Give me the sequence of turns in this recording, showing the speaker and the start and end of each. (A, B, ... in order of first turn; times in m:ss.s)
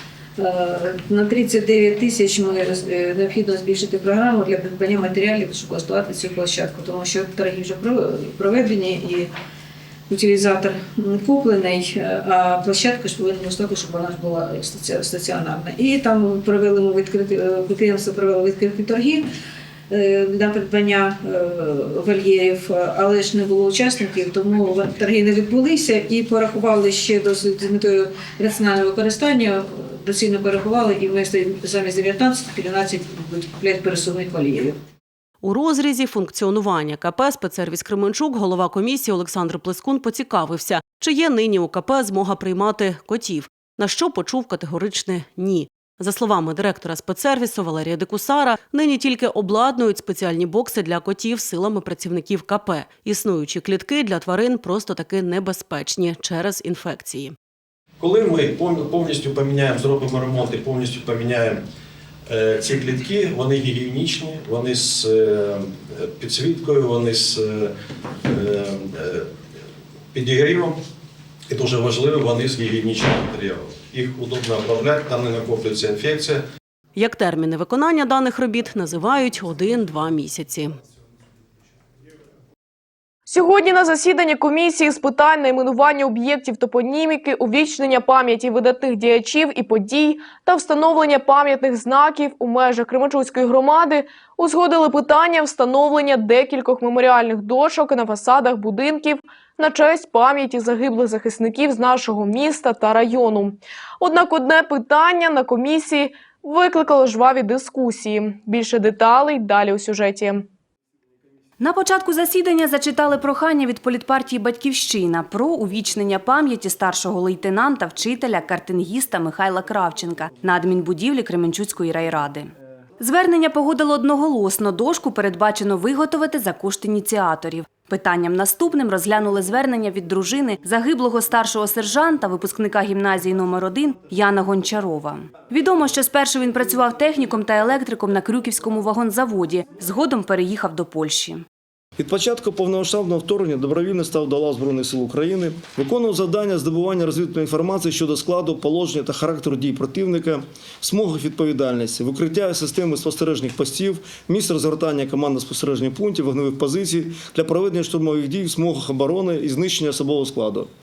0:00.4-0:09.3 A
0:10.1-0:19.3 A
0:19.9-0:34.8 A
0:35.4-0:57.3 B
0:58.0-1:01.6 C
1:02.3-1:07.7 C
1:08.2-1:09.3 C
1:10.1-1:10.8 C
1:11.5-1:16.4 C
1:17.0-1:20.7 B
1:23.3-1:50.4 D
1:51.6-2:21.4 E
2:22.0-2:40.7 F